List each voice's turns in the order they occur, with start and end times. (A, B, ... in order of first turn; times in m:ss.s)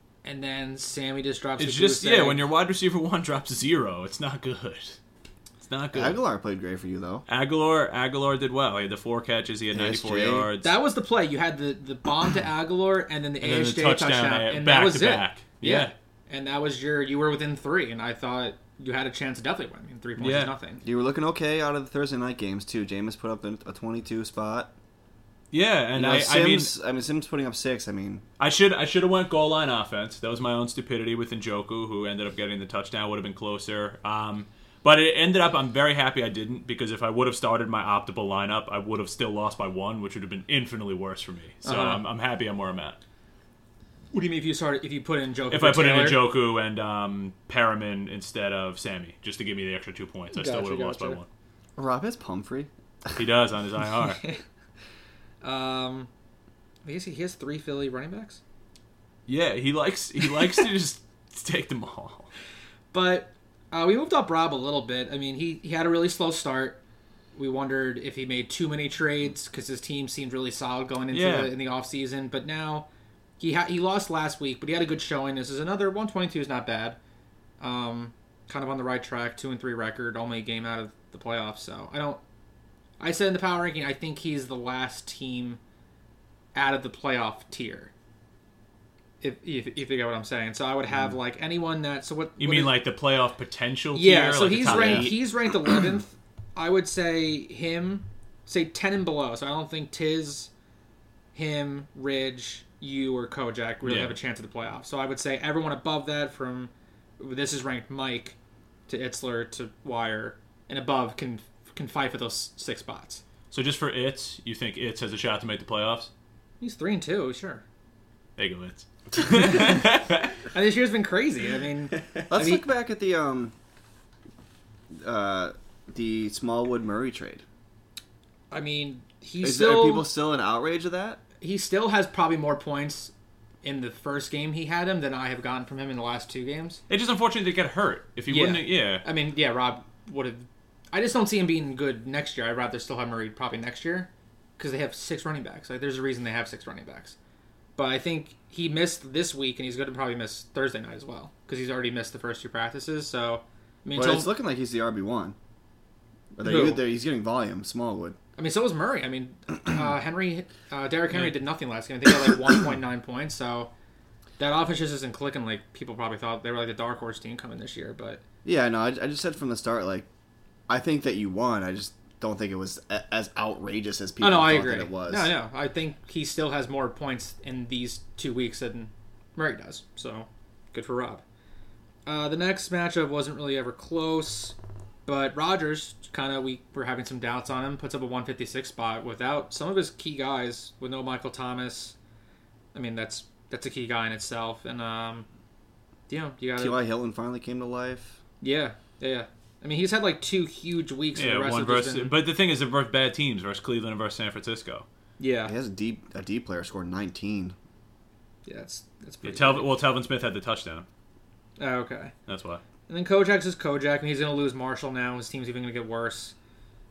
0:00.2-0:02.4 A
0:01.6-0:05.0 B
0:05.6-0:06.2 B
0:05.9-0:07.2 C
0:07.3-0:10.7 B
0:09.7-0:10.5 C
0:10.6-0:20.8 A
0:13.4-0:15.9 B
0:20.2-0:20.5 B
0:20.8-0:24.7 C
0:25.5-0:26.7 B
0:25.9-0:28.2 C
0:28.4-0:43.0 B
0:41.6-0:42.0 A
0:44.1-0:46.3 A
0:45.5-0:51.2 B
0:50.3-0:51.2 A
0:51.8-0:52.7 C
0:53.1-0:54.3 B
0:55.4-0:56.1 A
0:56.8-0:58.4 A
0:59.3-1:02.3 B
1:02.9-1:06.8 A
1:07.4-1:12.9 A
1:11.1-1:11.5 B
1:13.4-1:17.0 A
1:17.6-1:22.2 A
1:23.0-1:25.6 A
1:26.5-1:27.9 A
1:29.2-1:32.8 A
1:32.4-1:35.2 B
1:33.9-1:40.5 A
1:34.5-1:35.2 C
1:41.3-1:48.4 A
1:43.8-1:44.2 B
1:48.9-1:53.2 A
1:53.5-1:56.1 B
1:56.6-1:57.6 A
1:58.4-2:00.4 B
1:59.2-1:59.8 A
2:00.5-2:02.6 A
2:02.3-2:03.5 C
2:04.9-2:07.4 C
2:08.5-2:10.1 A
2:09.4-2:11.2 C
2:11.4-2:13.1 A
2:13.6-2:16.8 A
2:16.9-2:19.0 B
2:18.3-2:27.2 A
2:27.8-2:34.3 A
2:33.9-2:35.4 C
2:36.4-2:38.2 C
2:36.4-2:36.8 A
2:38.4-2:43.7 A
2:44.4-2:48.2 A
2:48.4-2:50.1 C
2:50.7-2:55.3 C
2:54.2-3:01.2 A
3:02.0-3:04.5 A
3:05.0-3:11.9 A
3:12.7-3:15.2 A
3:16.1-3:16.8 A
3:16.6-3:18.2 C
3:18.4-3:22.1 A
3:21.1-3:24.8 B
3:25.2-3:25.5 A
3:25.4-3:27.5 C
3:28.4-3:29.7 A
3:29.2-3:30.8 B
3:31.6-3:32.1 A
3:32.3-3:32.6 B
3:32.9-3:36.3 A